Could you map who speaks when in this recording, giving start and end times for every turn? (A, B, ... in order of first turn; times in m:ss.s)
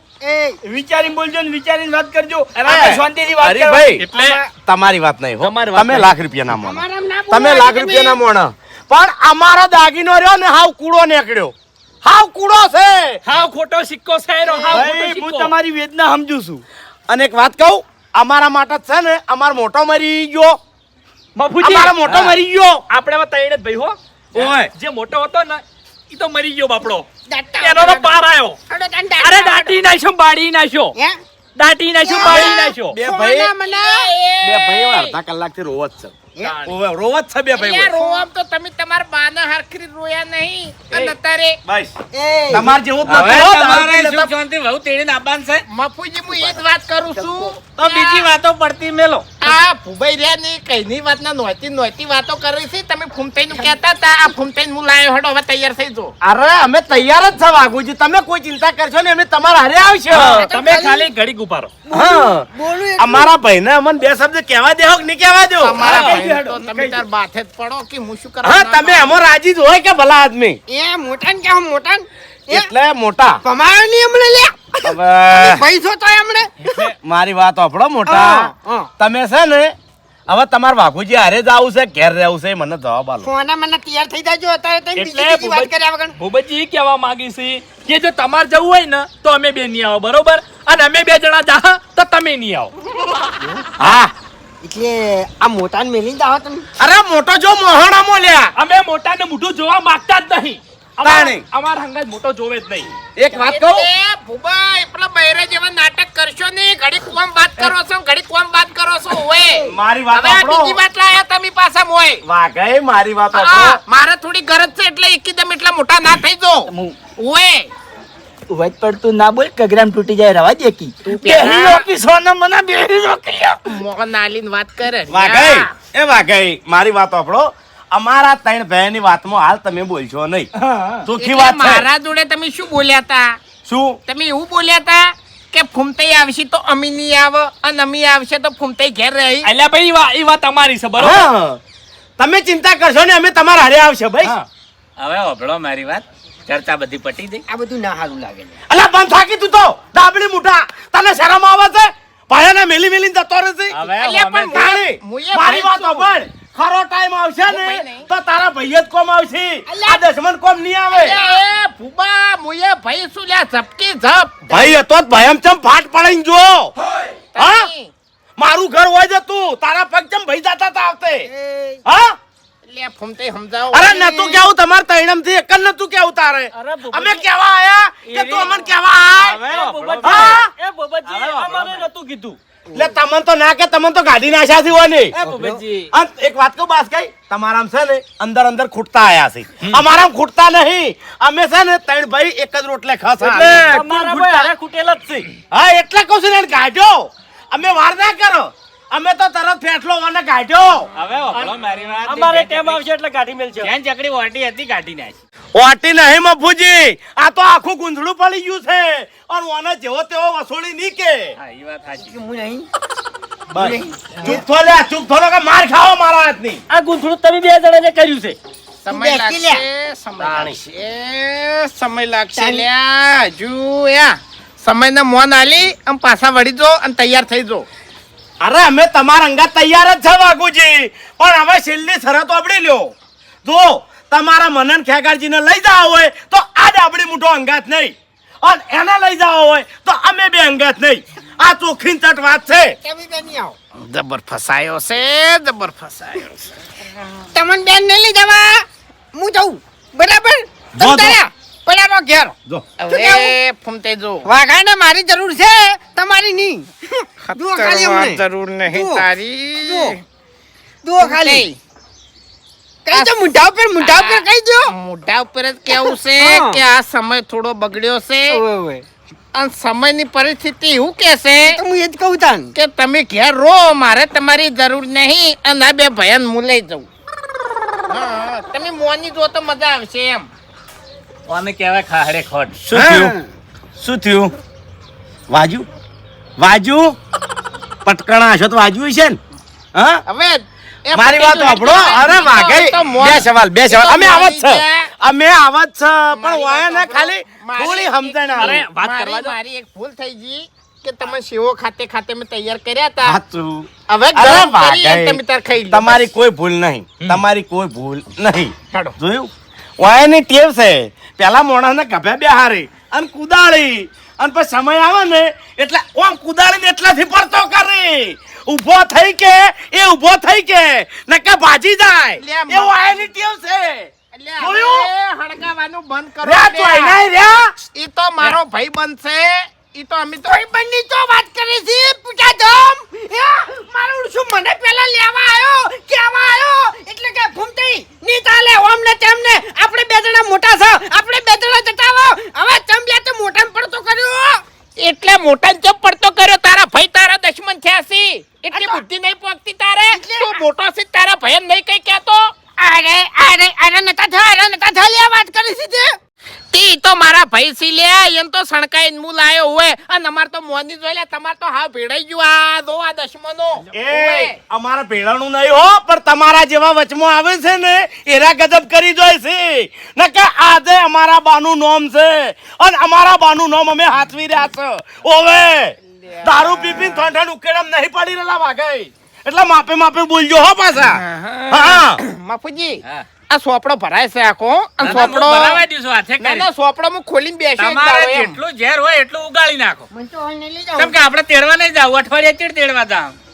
0:00.2-0:00.6 A
0:00.6-0:03.9 B
0:02.6-0:02.9 C
0:02.7-0:04.1 D
0:04.0-0:04.4 C
0:04.1-0:04.5 A
0:04.6-0:13.2 D
0:05.4-0:06.2 C
0:06.5-0:08.2 A
0:13.3-0:15.6 C
0:14.4-0:14.9 A
0:14.7-0:16.6 B
0:17.1-0:20.6 D
0:21.4-0:22.4 C
0:21.6-0:22.8 D
0:22.9-0:27.1 C
0:24.3-0:24.7 D
0:27.3-0:28.1 A
0:27.6-0:28.6 C
0:28.7-0:29.8 A
0:29.2-0:31.0 C
0:31.0-0:31.2 A
0:31.6-0:33.0 C
0:32.0-0:34.1 A
0:32.2-0:33.5 D
0:33.6-0:35.2 E
0:34.4-0:36.1 D
0:36.4-0:36.8 C
0:36.6-0:37.9 D
0:37.6-0:41.6 E
0:37.9-0:38.3 A
0:41.6-0:41.9 D
0:42.1-0:42.7 A
0:42.5-0:44.3 D
0:43.1-0:45.6 F
0:45.7-0:48.3 E
0:46.3-0:46.6 A
0:47.2-0:47.5 A
0:47.8-0:49.3 F
0:49.4-0:56.1 E
0:56.2-1:00.5 D
1:00.1-1:01.7 C
1:00.1-1:01.1 A
1:01.9-1:03.3 A
1:01.9-1:02.5 D
1:03.0-1:06.1 D
1:05.6-1:09.2 E
1:05.8-1:07.0 B
1:05.9-1:06.2 C
1:08.4-1:10.6 D
1:10.7-1:12.7 A
1:12.5-1:13.4 D
1:13.4-1:16.8 A
1:14.8-1:15.6 D
1:16.6-1:16.9 C
1:17.0-1:19.7 D
1:18.1-1:18.9 A
1:20.3-1:23.3 D
1:23.2-1:26.2 A
1:25.0-1:32.7 C
1:33.4-1:33.7 A
1:33.8-1:34.1 D
1:34.6-1:36.7 A
1:36.8-1:38.5 D
1:38.6-1:43.0 C
1:41.0-1:41.4 D
1:43.2-1:43.9 D
1:43.5-1:52.2 E
1:49.6-1:50.8 D
1:52.2-1:53.8 D
1:53.3-1:57.7 E
1:56.7-1:57.0 B
1:58.5-2:03.8 B
2:01.1-2:01.9 E
2:03.6-2:05.7 E
2:05.1-2:10.5 D
2:10.6-2:11.0 C
2:11.0-2:11.9 D
2:11.2-2:13.4 E
2:13.7-2:14.0 D
2:14.1-2:19.5 E
2:19.4-2:21.3 C
2:21.0-2:21.6 D
2:22.2-2:24.4 D
2:25.0-2:27.4 F
2:27.5-2:28.6 A
2:28.7-2:33.8 D
2:33.7-2:34.6 F
2:34.0-2:36.1 E
2:34.4-2:41.2 D
2:37.5-2:38.1 E
2:39.7-2:40.0 A
2:40.9-2:44.4 E
2:41.1-2:41.4 A
2:44.5-2:44.8 A
2:44.5-2:46.7 D
2:47.4-2:47.9 E
2:47.4-2:47.7 D
2:48.4-2:51.3 D
2:51.2-2:51.8 A
2:51.9-2:52.2 D
2:52.7-2:54.4 E
2:53.7-2:59.5 D
2:56.6-2:57.2 F
2:58.1-2:58.7 F
2:59.2-3:01.9 F
2:59.5-3:00.4 C
2:59.5-3:00.1 B
3:00.0-3:00.5 D
3:01.1-3:01.6 D
3:01.4-3:01.8 C
3:01.6-3:02.4 B
3:02.7-3:05.2 D
3:05.2-3:05.9 F
3:05.3-3:05.6 B
3:05.9-3:13.7 D
3:13.4-3:14.5 C
3:13.5-3:15.2 F
3:13.7-3:14.5 B
3:15.5-3:20.9 D
3:21.0-3:22.8 F
3:22.0-3:23.7 B
3:23.6-3:25.2 F
3:25.6-3:31.4 D
3:31.4-3:32.1 F
3:31.9-3:32.7 A
3:33.5-3:34.4 A
3:33.5-3:36.6 D
3:36.7-3:38.4 B
3:38.8-3:47.7 E
3:38.9-3:39.6 A
3:40.2-3:40.6 F
3:42.4-3:42.7 A
3:48.4-3:52.9 D
3:53.4-4:02.8 D
4:02.8-4:03.6 A
4:03.8-4:06.5 E
4:07.3-4:12.4 A
4:10.8-4:11.2 D
4:12.8-4:14.3 E
4:12.9-4:13.4 A
4:14.3-4:19.1 A
4:17.2-4:20.0 E
4:19.6-4:20.0 A
4:20.8-4:21.5 A
4:21.0-4:21.6 E
4:22.8-4:24.7 A
4:23.8-4:28.4 E
4:25.7-4:26.6 A
4:28.3-4:28.9 A
4:29.4-4:31.6 E
4:31.4-4:32.5 A
4:32.6-4:36.9 E
4:37.9-4:40.3 E
4:41.3-4:42.6 F
4:42.7-4:43.2 D
4:43.8-4:44.3 D
4:45.3-4:45.7 D
4:46.4-4:47.0 D
4:47.8-4:49.2 D
4:49.8-4:50.0 D
4:50.1-4:54.9 E
4:51.0-4:58.7 D
4:56.2-5:03.2 E
4:58.4-4:59.4 C
5:03.0-5:24.9 D
5:03.9-5:06.0 E
5:22.2-5:23.1 E
5:24.2-5:27.0 E
5:26.2-5:27.5 D
5:27.7-5:30.4 E
5:30.3-5:44.4 A
5:44.8-5:52.3 E
5:48.5-5:48.8 A
5:49.9-5:50.4 A
5:52.6-5:56.0 A
5:56.5-6:04.4 E
6:03.7-6:22.0 D
6:15.9-6:17.0 E
6:20.9-6:25.6 E
6:24.8-6:26.5 F
6:26.2-6:28.4 E
6:27.6-6:29.9 F
6:29.9-6:31.0 A
6:30.8-6:33.2 F